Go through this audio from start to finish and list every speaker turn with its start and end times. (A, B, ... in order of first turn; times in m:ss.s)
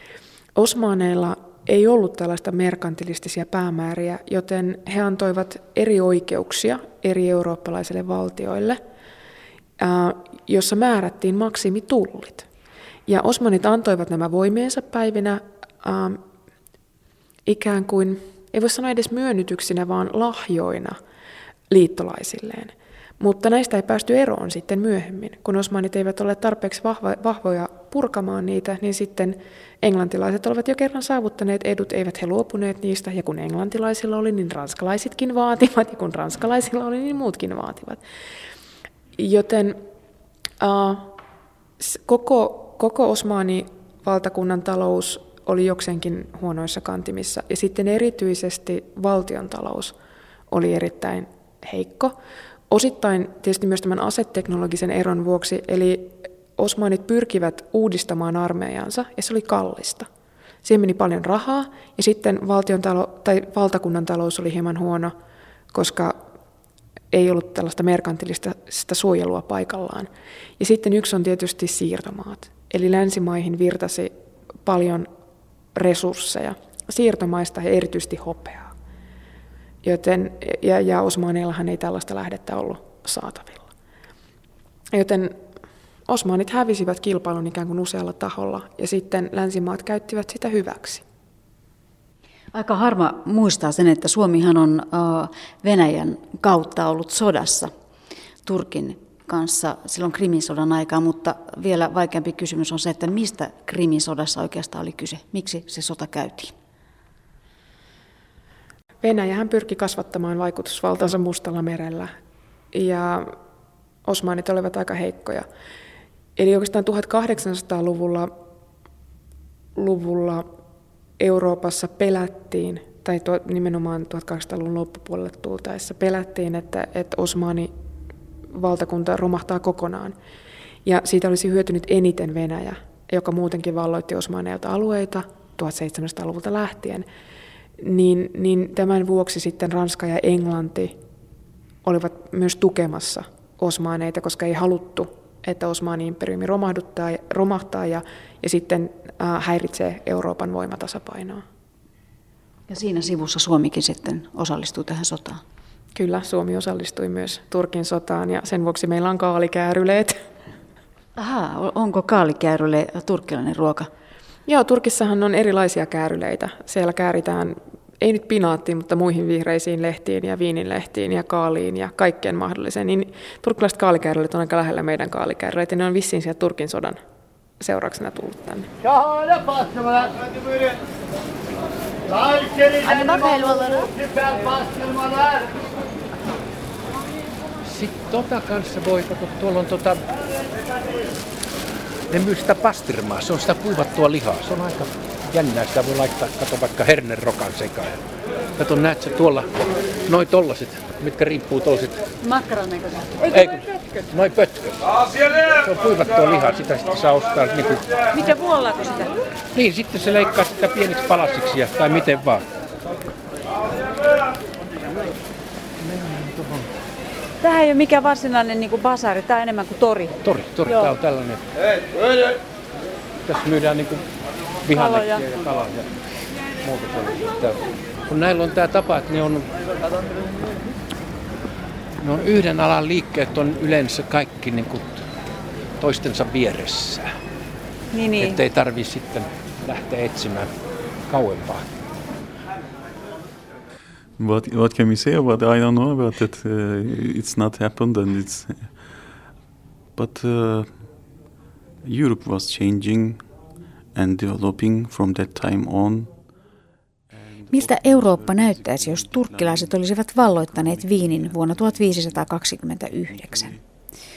0:00.6-0:08.8 A
0:09.8-0:12.4 A
0:13.1-0:16.2 A
0:17.4-0:21.0 A
0:21.7-0:38.0 A
0:39.2-0:39.8 A
0:40.6-0:41.1 A
0:41.8-0:49.9 A
0:50.5-0:52.1 A
0:52.7-1:00.1 A
1:00.6-1:05.1 A
1:05.7-1:06.2 A
1:07.1-1:14.1 A
1:14.6-1:15.1 A
1:15.7-1:18.7 A
1:19.8-1:23.7 A
1:24.9-1:25.4 A
1:26.1-1:31.0 A
1:32.5-1:37.7 B
1:38.4-1:46.5 B
1:49.0-1:52.1 A
1:52.7-1:53.3 A
1:54.0-1:55.4 A
1:56.4-1:58.3 A
1:59.8-2:00.4 A
2:01.2-2:07.7 A
2:08.5-2:10.1 A
2:10.8-2:17.0 A
2:17.8-2:20.9 A
2:21.8-2:31.4 A
2:32.7-2:35.4 B
2:35.9-2:40.2 A
2:41.2-2:43.9 B
2:44.4-2:57.0 A
2:57.6-2:58.7 A
3:02.8-3:03.9 C
3:07.6-3:10.0 D
3:12.1-3:18.0 D
3:18.6-3:19.5 D
3:20.0-3:22.0 D
3:22.2-3:23.4 C
3:23.3-3:24.8 D
3:25.6-3:27.9 D
3:28.1-3:29.1 C
3:29.5-3:32.4 D
3:35.8-3:36.7 D
3:37.4-3:40.2 C
3:40.2-3:41.4 D
3:43.2-3:44.0 D
3:44.6-3:45.9 D
3:44.7-3:45.2 C
3:46.6-3:49.5 D
3:52.0-3:55.0 D
3:55.8-3:57.1 D
3:57.9-3:58.4 C
3:58.2-4:00.5 D
4:01.1-4:01.7 D
4:04.2-4:08.7 E
4:09.9-4:11.0 E
4:11.8-4:13.3 E
4:13.9-4:16.2 E
4:17.1-4:23.6 E
4:17.5-4:23.5 B